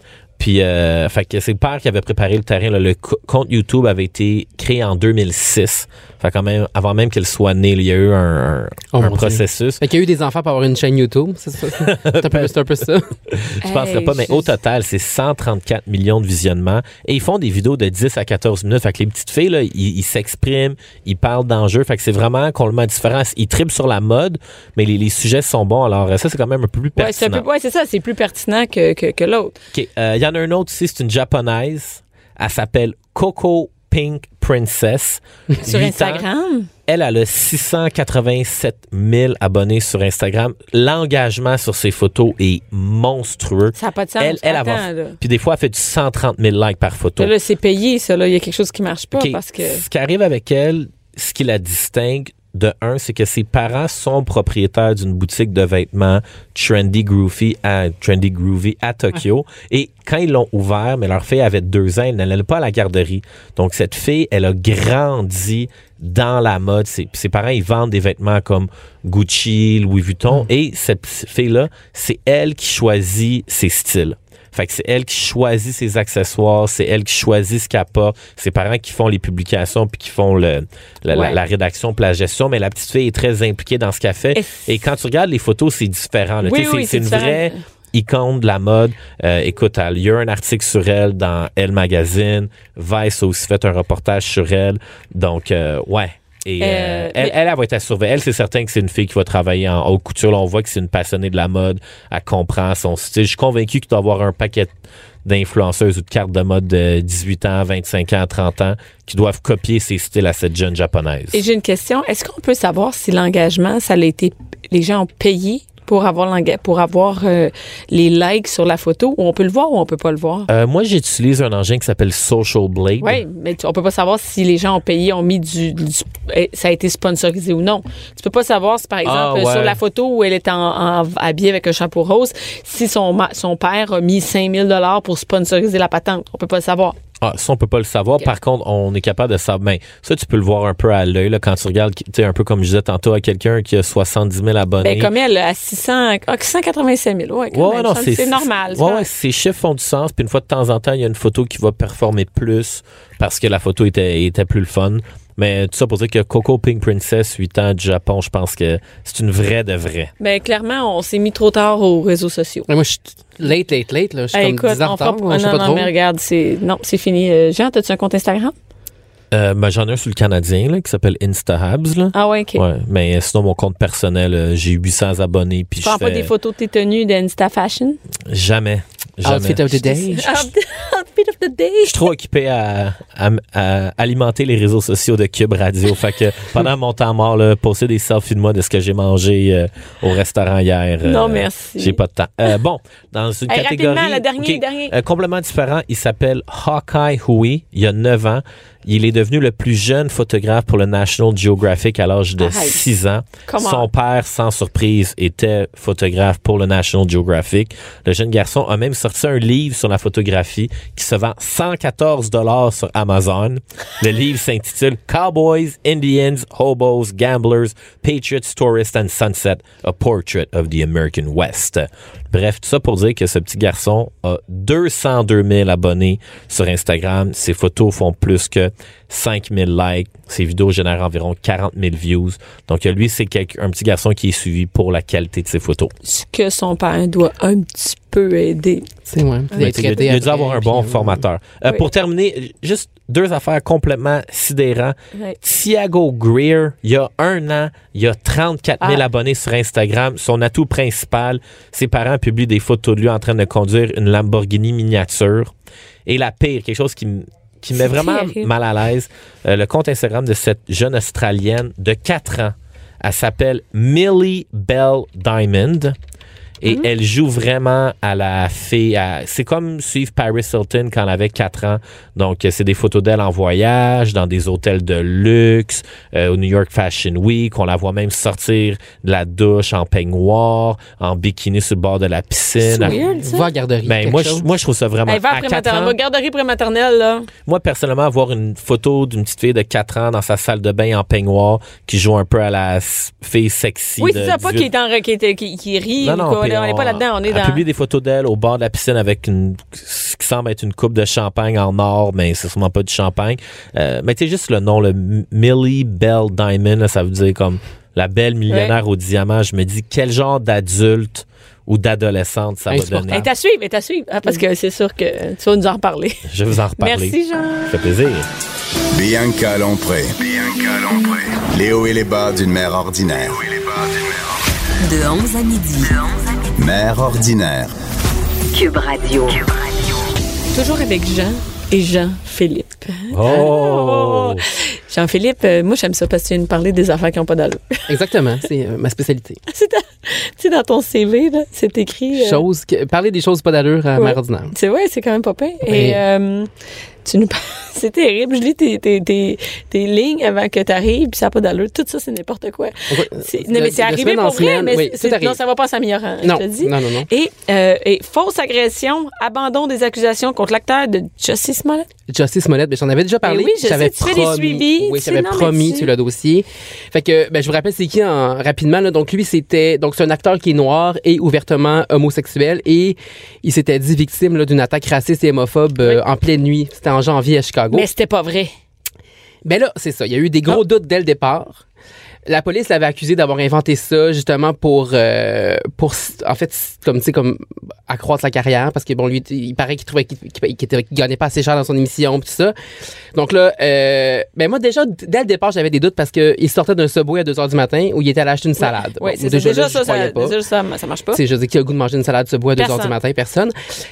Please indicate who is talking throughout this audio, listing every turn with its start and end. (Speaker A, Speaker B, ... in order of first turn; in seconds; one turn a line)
Speaker A: 0.4-9.8
Speaker B: 8.9-13.1
Speaker A: 11.8-12.5
Speaker A: 13.3-27.4
Speaker C: 13.6-14.4
Speaker C: 26.9-29.6
Speaker A: 29.7-36.2
Speaker C: 35.6-36.7
Speaker A: 36.9-47.3
Speaker C: 43.8-45.2
Speaker C: 47.2-49.8
Speaker A: 49.1-104.7
Speaker C: 81.1-81.4
Speaker C: 84.3-84.7
Speaker C: 86.4-87.6
Speaker C: 96.6-97.3
Speaker A: 105.2-111.4
Speaker C: 111.3-120.5
Speaker A: 120.5-123.2
Speaker C: 123.0-137.0
Speaker A: 129.0-129.8
Speaker A: 137.2-145.1
Speaker C: 144.8-149.1
Speaker A: 147.5-160.1
Speaker C: 160.2-162.7
Speaker B: 162.7-165.9
Speaker C: 164.3-168.5
Speaker A: 169.3-176.3
Speaker C: 172.1-172.6
Speaker C: 175.8-178.0
Speaker A: 178.3-179.8
Speaker B: 179.2-180.5
Speaker C: 179.8-182.1
Speaker A: 181.9-235.9
Speaker C: 191.0-192.0
Speaker C: 193.5-194.9
Speaker C: 202.4-202.8
Speaker C: 203.4-203.9
Speaker C: 236.0-238.9
Speaker B: 239.1-241.2
Speaker C: 239.5-240.2
Speaker A: 239.6-255.5
Speaker A: 256.1-265.9
Speaker C: 257.8-258.5
Speaker A: 266.6-283.0
Speaker C: 282.7-283.5
Speaker B: 282.7-284.4
Speaker A: 283.8-285.9
Speaker C: 285.1-287.3
Speaker A: 287.4-294.7
Speaker C: 294.0-297.6
Speaker A: 296.0-313.3
Speaker C: 312.8-316.2
Speaker A: 316.3-318.3
Speaker C: 316.8-317.8
Speaker D: 318.9-324.4
Speaker E: 324.8-326.5
Speaker D: 326.6-327.7
Speaker E: 328.5-329.6
Speaker C: 330.5-337.9
Speaker A: 333.1-334.4
Speaker B: 337.9-339.4
Speaker C: 339.5-342.4
Speaker B: 342.1-344.5
Speaker C: 343.9-346.5
Speaker B: 345.6-346.0
Speaker C: 347.0-361.9
Speaker B: 352.9-355.4
Speaker B: 356.2-357.1
Speaker B: 362.1-377.9
Speaker C: 363.2-365.9
Speaker C: 377.7-378.5
Speaker B: 379.4-381.6
Speaker B: 382.2-392.5
Speaker B: 393.1-400.4
Speaker C: 398.6-401.2
Speaker B: 401.1-403.5
Speaker C: 402.6-402.9